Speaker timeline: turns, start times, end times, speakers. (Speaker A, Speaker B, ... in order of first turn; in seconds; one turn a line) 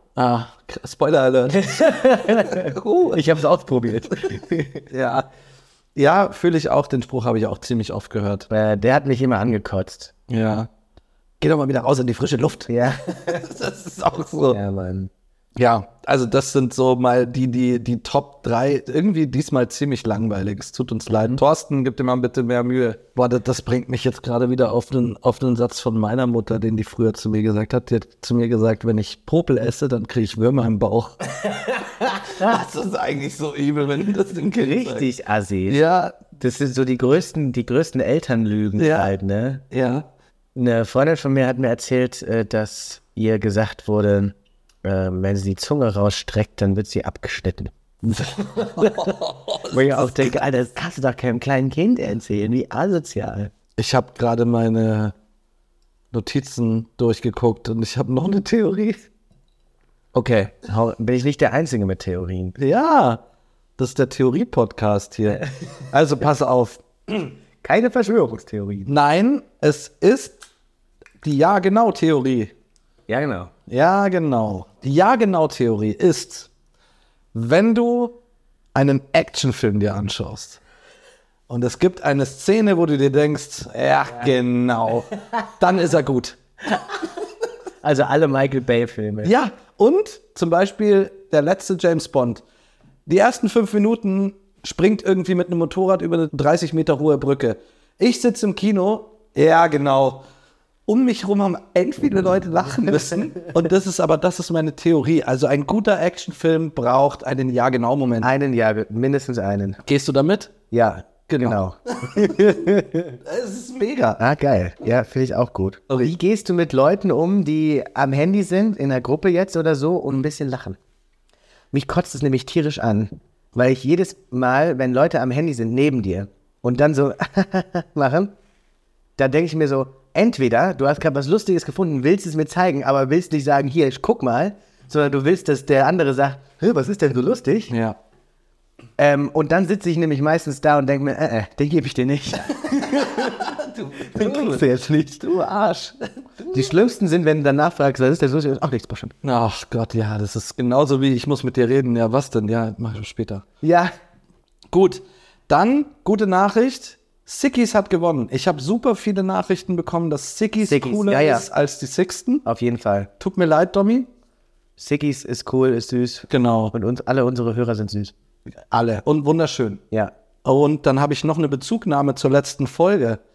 Speaker A: 0.1-1.7
Speaker B: 1.5-4.8
Speaker A: 2.4-3.2
Speaker A: 4.9-5.3
Speaker A: 6.0-8.5
Speaker B: 8.5-10.1
Speaker A: 10.3-10.7
Speaker A: 11.4-14.6
Speaker B: 12.7-13.5
Speaker B: 14.5-15.1
Speaker A: 15.6-35.1
Speaker B: 31.7-32.3
Speaker B: 34.6-35.8
Speaker A: 35.7-36.2
Speaker B: 36.4-39.6
Speaker A: 38.8-39.1
Speaker A: 39.7-40.1
Speaker B: 40.5-53.5
Speaker A: 48.6-50.3
Speaker A: 53.8-55.1
Speaker A: 56.1-59.1
Speaker A: 60.1-60.5
Speaker B: 60.5-62.6
Speaker A: 62.6-63.2
Speaker A: 63.8-67.3
Speaker B: 67.6-68.9
Speaker A: 68.9-70.4
Speaker A: 71.2-72.5
Speaker B: 73.1-73.5
Speaker A: 73.7-76.5
Speaker A: 77.3-78.2
Speaker A: 78.8-80.6
Speaker A: 81.5-86.4
Speaker B: 87.8-89.3
Speaker A: 89.2-92.4
Speaker A: 93.1-100.2
Speaker A: 100.9-108.3
Speaker B: 108.2-109.8
Speaker A: 109.8-110.5
Speaker B: 110.7-113.2
Speaker A: 111.3-112.6
Speaker A: 113.2-114.2
Speaker B: 114.2-120.8
Speaker B: 121.7-128.3
Speaker B: 129.2-137.7
Speaker A: 137.7-138.0
Speaker B: 139.0-145.4
Speaker A: 143.1-144.7
Speaker A: 145.3-146.7
Speaker B: 146.5-149.1
Speaker A: 149.2-153.4
Speaker B: 153.6-153.9
Speaker A: 154.7-162.4
Speaker B: 160.6-161.5
Speaker B: 162.4-163.1
Speaker A: 163.2-164.1
Speaker B: 164.8-168.1
Speaker A: 166.3-166.7
Speaker A: 168.7-169.8
Speaker A: 170.4-173.2